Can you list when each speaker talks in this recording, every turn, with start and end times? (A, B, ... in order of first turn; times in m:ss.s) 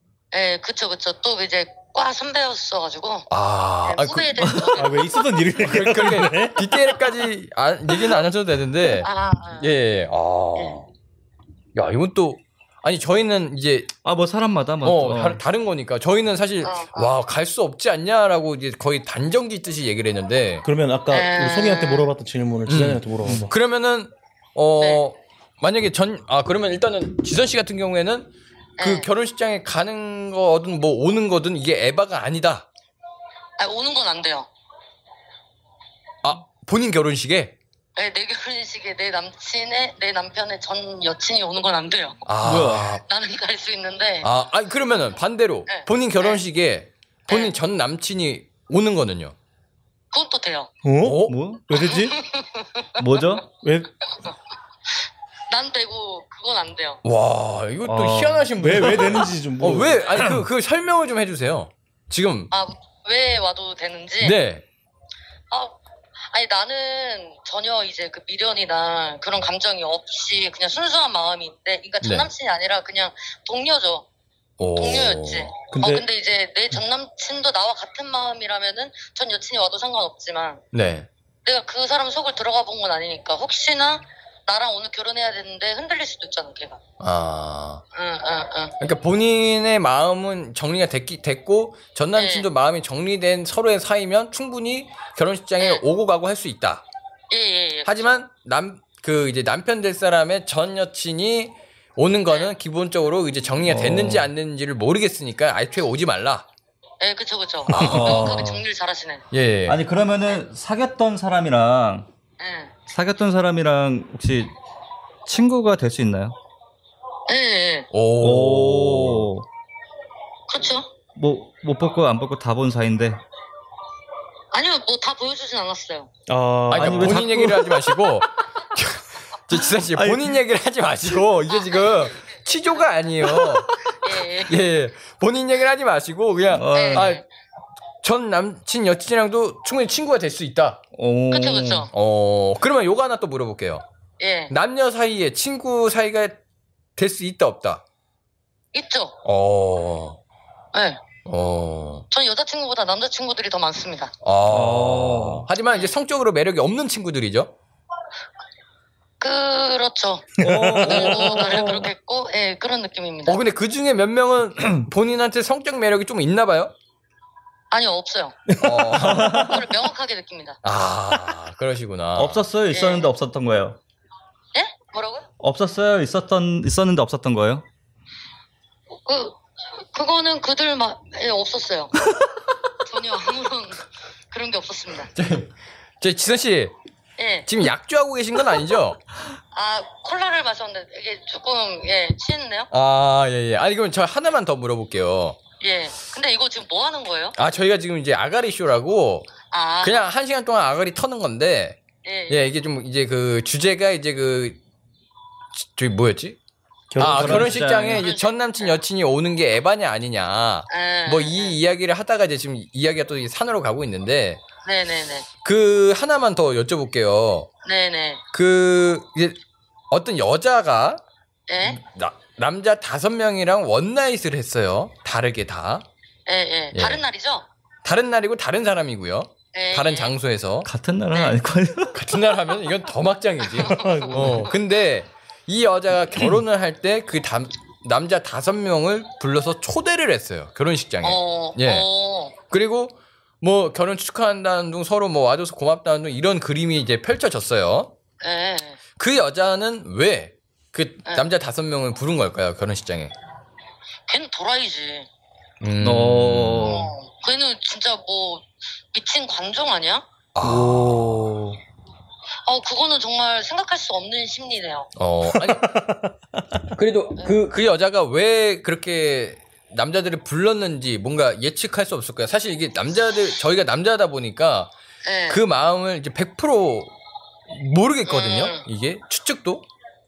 0:00.3-0:03.3 A
0:03.3-0:04.8 B
0:03.8-0:05.4 A
0:04.4-0:04.6 C
0:04.7-0:06.7 D
0:05.6-0:10.9 B
0:09.0-0:09.7 A
0:11.7-0:13.9 B
0:14.0-0:15.4 C
0:14.8-0:20.6 B
0:16.6-0:17.1 A
0:20.6-0:23.5 D
0:21.1-0:22.1 A
0:22.7-0:32.7 B
0:23.2-0:23.5 C
0:24.8-0:25.0 A
0:28.8-0:29.1 A
0:33.6-0:34.5 A
0:36.2-0:37.6 B
0:38.0-0:42.2 A
0:42.2-0:43.0 B
0:42.4-0:43.0 C
0:43.0-0:44.3 A
0:44.2-0:49.3 B
0:45.7-0:46.4 A
0:47.3-0:47.5 A
0:50.1-0:50.7 A
0:50.8-0:52.2 D
0:51.0-0:51.4 B
0:51.2-0:51.6 C
0:51.7-0:53.1 A
0:53.0-0:53.4 C
0:53.6-0:54.0 D
0:55.5-0:57.0 A
0:57.0-1:02.5 B
0:57.8-0:59.1 C
0:58.6-1:00.3 D
1:02.5-1:04.4 A
1:04.2-1:04.6 B
1:05.5-1:14.0 A
1:12.0-1:12.3 B
1:14.6-1:15.5 B
1:14.8-1:20.6 A
1:15.7-1:16.0 D
1:20.7-1:21.1 B
1:21.4-1:26.8 A
1:27.0-1:27.8 B
1:27.9-1:28.7 A
1:28.8-1:36.9 B
1:32.1-1:32.5 A
1:35.6-1:35.8 A
1:37.3-1:38.2 A
1:37.8-1:46.5 B
1:43.6-1:44.3 C
1:47.0-1:49.2 A
1:47.7-1:48.4 B
1:47.7-1:48.5 D
1:47.8-1:48.6 C
1:49.3-1:49.8 B
1:49.7-1:52.1 C
1:52.4-1:52.7 A
1:52.9-1:54.5 C
1:55.2-1:56.4 C
1:57.3-1:57.9 A
1:57.9-1:59.3 B
1:58.2-1:59.5 C
2:00.5-2:00.9 A
2:01.1-2:03.2 C
2:04.5-2:06.1 A
2:06.3-2:07.2 D
2:06.7-2:13.7 B
2:06.7-2:07.9 C
2:09.5-2:10.4 C
2:11.5-2:12.9 A
2:13.2-2:14.1 C
2:14.0-2:14.6 A
2:14.4-2:17.2 B
2:16.5-2:17.1 C
2:16.7-2:17.2 A
2:18.0-2:20.8 B
2:20.9-2:21.9 C
2:21.3-2:21.9 A
2:21.9-2:23.8 B
2:24.2-2:24.5 A
2:24.5-2:26.4 B
2:27.0-2:27.8 B
2:28.7-2:29.2 A
2:29.2-2:30.2 B
2:30.7-2:31.0 A
2:31.2-2:32.1 B
2:32.1-2:34.1 A
2:34.2-2:37.5 B
2:34.5-2:35.5 C
2:39.2-2:43.4 A
2:40.4-2:41.7 D
2:40.4-2:41.9 C
2:41.0-2:41.4 B
2:43.3-2:46.7 B
2:47.7-2:48.4 A
2:48.6-2:49.6 B
2:49.0-2:49.6 C
2:49.0-2:50.6 A
2:50.6-2:52.4 B
2:52.2-2:53.8 C
2:52.7-2:53.1 A
2:54.5-2:55.3 A
2:55.4-2:57.6 C
2:59.0-3:02.0 A
3:02.8-3:05.1 A
3:05.1-3:06.7 B
3:07.2-3:07.5 A
3:07.4-3:09.0 B
3:09.5-3:12.7 A
3:12.7-3:15.4 B
3:15.6-3:17.4 A
3:17.4-3:24.6 B
3:19.5-3:20.0 A
3:22.0-3:22.4 A
3:25.6-3:26.4 B
3:26.9-3:27.6 D
3:27.0-3:34.4 B
3:27.0-3:28.1 C
3:27.8-3:28.8 A
3:30.7-3:31.6 A
3:34.6-3:35.3 A
3:35.4-3:37.5 B
3:37.6-3:38.2 A
3:38.3-3:39.4 B
3:39.9-3:41.0 B
3:41.5-3:41.8 A
3:41.6-3:45.8 B
3:46.2-3:47.4 A
3:46.7-3:47.0 B
3:47.8-3:50.7 B
3:49.5-3:50.1 A
3:50.6-3:52.0 C
3:51.9-4:01.9 B
3:53.5-3:54.5 A
3:53.6-3:54.5 D
4:01.0-4:02.3 A
4:02.5-4:07.9 B
4:08.2-4:08.8 A
4:09.0-4:13.1 B
4:14.1-4:15.1 A
4:15.6-4:16.8 B
4:15.8-4:16.9 C
4:16.6-4:20.0 A
4:20.3-4:21.3 B
4:20.4-4:21.6 D
4:22.4-4:24.9 A
4:25.0-4:25.8 B
4:25.2-4:26.7 D
4:26.7-4:34.7 B
4:35.0-4:35.4 A
4:35.3-4:36.9 B
4:37.5-4:39.6 B
4:38.1-4:38.6 A